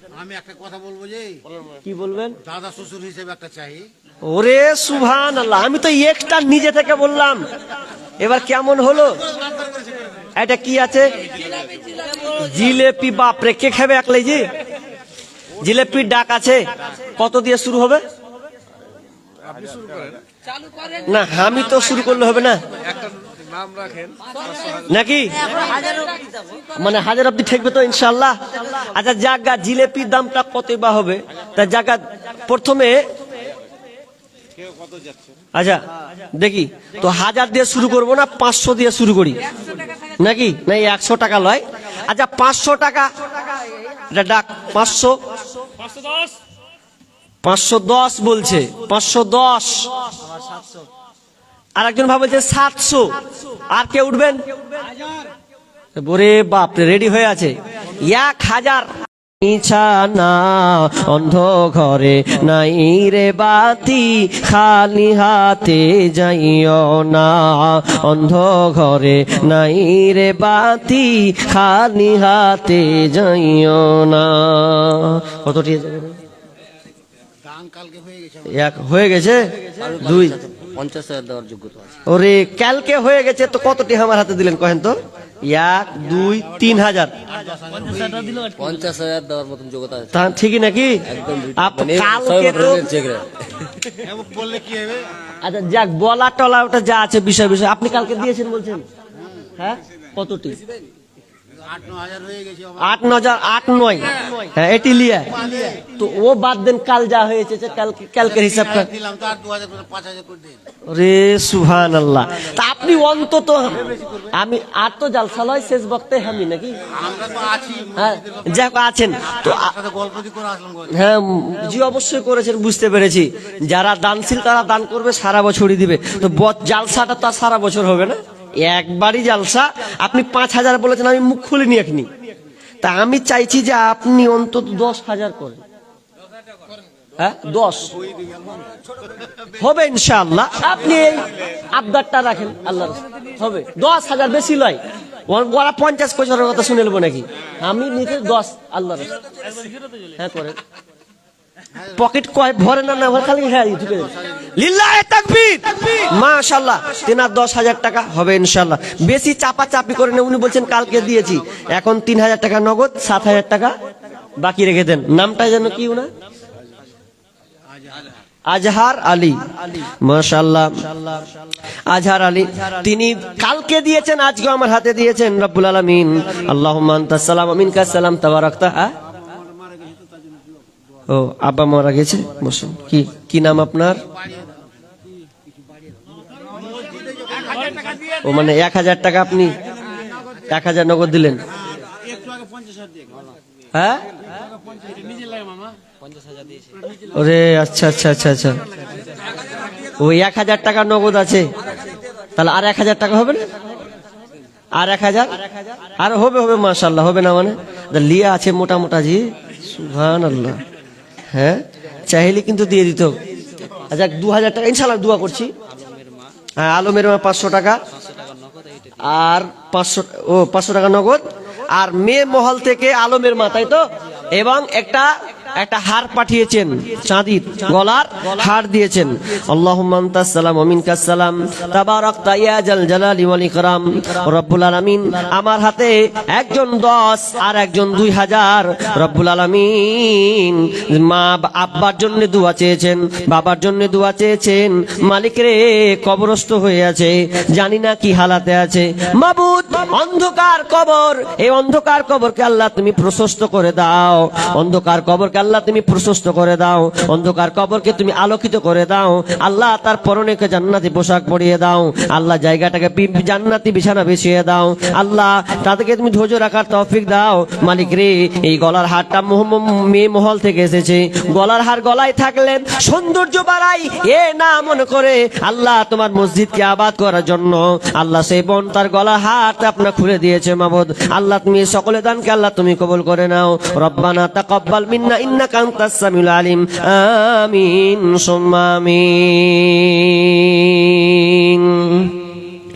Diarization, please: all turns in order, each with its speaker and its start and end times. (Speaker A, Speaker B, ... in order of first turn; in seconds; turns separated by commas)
Speaker A: 0.1-1.4, Speaker B: 1.8-2.4, Speaker A: 2.4-3.9, Speaker B: 4.2-7.5, Speaker B: 8.2-9.2, Speaker A: 9.5-9.9, Speaker B: 10.4-11.2, Speaker B: 12.2-14.5, Speaker B: 15.6-16.6, Speaker B: 17.2-18.0, Speaker A: 19.5-20.2, Speaker B: 21.1-22.6, Speaker B: 24.9-25.6, Speaker B: 26.8-33.0, Speaker B: 35.5-35.8, Speaker B: 36.4-39.4, Speaker B: 40.2-43.1, Speaker B: 44.1-45.2, Speaker B: 47.5-49.9, Speaker B: 51.8-53.2, Speaker B: 53.7-54.4, Speaker B: 56.0-76.2, Speaker A: 77.4-78.6, Speaker B: 78.5-80.4, Speaker C: 79.8-82.0, Speaker B: 82.1-87.2, Speaker A: 87.3-88.5, Speaker C: 88.4-90.2, Speaker B: 90.1-91.0, Speaker C: 91.1-93.9, Speaker B: 91.6-92.9, Speaker A: 94.0-95.2, Speaker B: 95.4-98.8, Speaker A: 99.2-99.5, Speaker B: 99.6-100.6, Speaker A: 101.6-103.2, Speaker B: 102.8-108.9, Speaker A: 105.4-105.8, Speaker A: 108.3-110.6, Speaker B: 110.9-116.8, Speaker A: 116.9-118.6, Speaker B: 118.0-119.7, Speaker A: 119.3-120.9, Speaker B: 120.9-132.1, Speaker B: 132.8-135.6, Speaker B: 137.2-137.9, Speaker B: 139.6-149.2, Speaker B: 150.2-150.6, Speaker B: 151.9-163.7, Speaker B: 164.4-166.1, Speaker A: 167.8-168.1, Speaker B: 168.5-171.1, Speaker B: 171.9-178.9, Speaker A: 179.3-180.4, Speaker B: 181.1-184.0, Speaker A: 186.3-188.0, Speaker B: 188.2-189.6, Speaker A: 189.9-190.4, Speaker B: 190.5-191.4, Speaker A: 191.7-193.3, Speaker B: 193.7-194.0, Speaker A: 194.7-195.7, Speaker B: 197.1-198.6, Speaker B: 200.0-201.5, Speaker B: 202.4-203.4, Speaker B: 204.8-205.4, Speaker B: 206.0-210.6, Speaker B: 211.3-213.2, Speaker B: 213.9-215.5, Speaker B: 216.6-217.8, Speaker B: 219.0-221.2, Speaker B: 221.7-223.8, Speaker B: 224.4-292.2